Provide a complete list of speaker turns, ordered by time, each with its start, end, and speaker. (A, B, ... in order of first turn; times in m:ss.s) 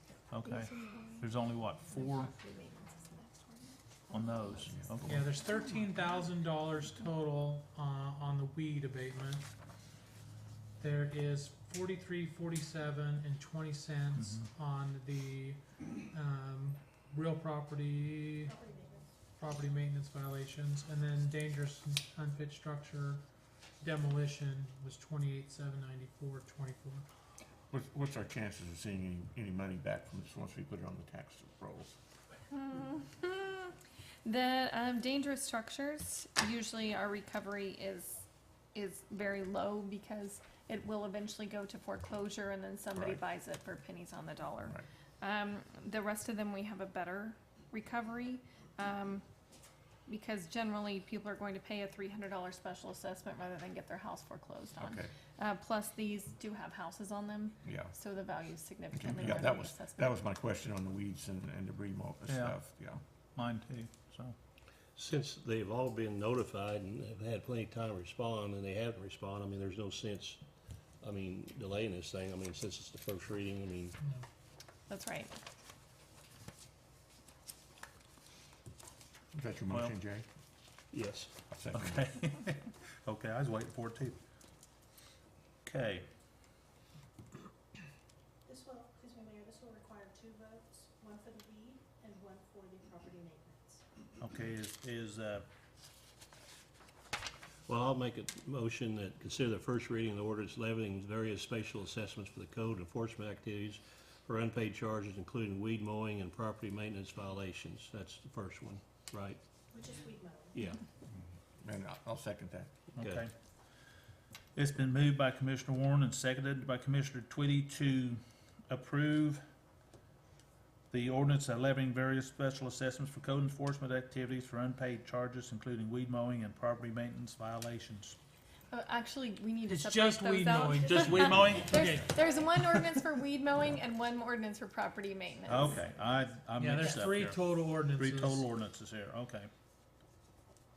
0:00.3-0:02.3 A
0:00.4-0:04.7 B
0:04.1-0:05.3 A
0:04.8-0:05.2 C
0:05.0-0:09.5 D
0:05.4-0:05.8 B
0:10.8-0:18.6 D
0:14.2-0:14.5 A
0:18.4-0:19.2 E
0:19.4-0:23.2 D
0:23.8-0:27.0 D
0:27.7-0:32.0 C
0:32.5-0:49.2 B
0:43.0-0:43.2 C
0:50.1-1:00.2 B
0:54.8-0:55.1 C
0:57.6-0:57.9 C
0:58.9-1:03.0 C
1:02.3-1:02.6 A
1:03.4-1:04.4 A
1:05.0-1:10.4 F
1:11.0-1:14.0 F
1:14.9-1:15.4 B
1:19.3-1:20.2 C
1:20.9-1:21.3 F
1:21.5-1:22.0 C
1:21.7-1:24.2 A
1:25.6-1:26.1 A
1:28.4-1:33.8 E
1:34.2-1:35.5 A
1:37.7-1:49.4 F
1:49.7-1:50.6 E
1:50.5-1:50.8 F
1:51.6-1:52.7 C
1:53.0-1:53.2 F
1:53.0-1:53.3 A
1:54.6-1:59.4 A
2:00.9-2:08.2 A
2:08.7-2:15.8 B
2:09.7-2:12.9 D
2:10.8-2:11.8 A
2:15.5-2:19.5 A
2:16.6-2:18.5 D